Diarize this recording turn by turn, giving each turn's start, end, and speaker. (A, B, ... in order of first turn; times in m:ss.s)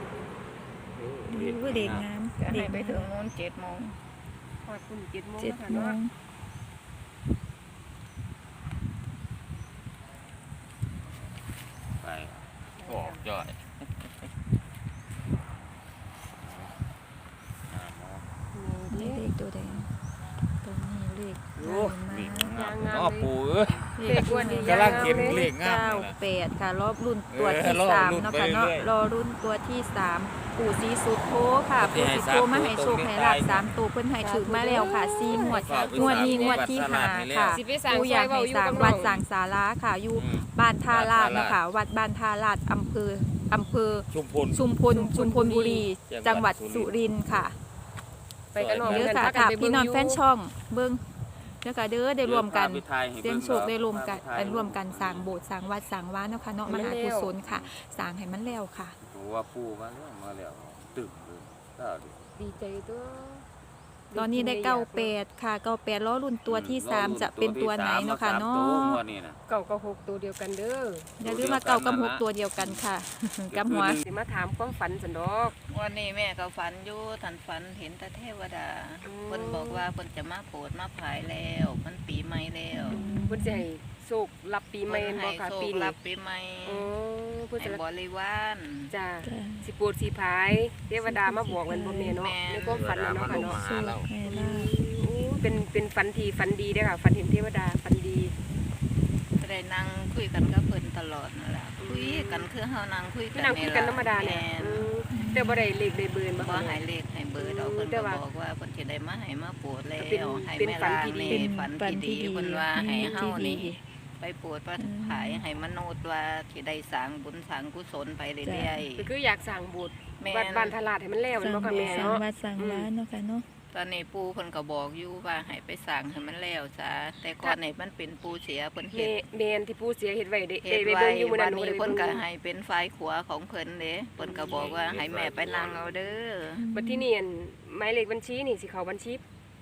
0:00.9-0:02.1 A
0:01.3-0:03.1 B
0:02.4-0:04.0 C
0:04.6-0:06.0 D
0:05.4-0:06.1 B
0:12.0-0:13.8 A
0:12.8-0:13.2 D
0:16.4-0:16.8 A
0:17.7-0:18.3 A
0:18.5-0:19.2 D
0:18.9-0:19.9 B
0:20.6-0:22.5 B
0:21.6-0:26.2 A
0:22.5-0:23.3 D
0:24.0-0:47.6 B
0:24.0-0:25.4 D
0:27.3-0:28.9 A
0:31.8-0:33.7 A
0:34.2-0:36.8 D
0:35.2-0:37.6 A
0:37.5-0:39.2 D
0:40.1-0:41.6 A
0:44.1-0:47.0 A
0:48.5-0:50.2 D
0:48.6-0:49.2 A
0:48.8-0:59.0 B
0:52.2-0:55.4 A
0:56.6-0:57.4 D
0:57.4-0:57.7 A
0:59.0-1:02.2 A
1:02.4-1:03.4 D
1:04.1-1:05.1 D
1:04.1-1:09.0 B
1:06.5-1:09.4 A
1:09.5-1:11.1 D
1:11.2-1:14.0 B
1:11.2-1:12.8 A
1:13.5-1:14.0 A
1:14.0-1:15.6 D
1:15.7-1:23.0 C
1:19.0-1:19.9 D
1:22.7-1:23.6 B
1:22.9-1:25.9 D
1:24.9-1:26.9 C
1:26.6-1:27.8 D
1:27.6-1:28.9 C
1:28.9-1:33.6 D
1:29.2-1:29.6 B
1:31.0-1:32.2 B
1:32.2-1:33.4 C
1:32.7-1:34.1 A
1:33.4-1:34.7 B
1:34.2-1:38.3 D
1:39.4-1:44.9 C
1:41.8-1:42.5 D
1:43.3-1:46.8 D
1:45.1-1:45.7 B
1:46.3-1:59.1 C
1:47.4-1:48.2 D
1:50.0-1:51.5 D
1:51.3-1:53.8 B
1:54.8-1:55.4 B
1:58.4-1:58.8 B
1:59.0-2:02.9 D
2:00.2-2:00.8 C
2:01.4-2:03.5 B
2:01.7-2:02.2 C
2:03.7-2:09.2 C
2:08.9-2:12.2 D
2:10.6-2:16.6 C
2:14.2-2:14.6 D
2:14.5-2:16.1 A
2:16.6-2:17.1 B
2:16.7-2:19.2 D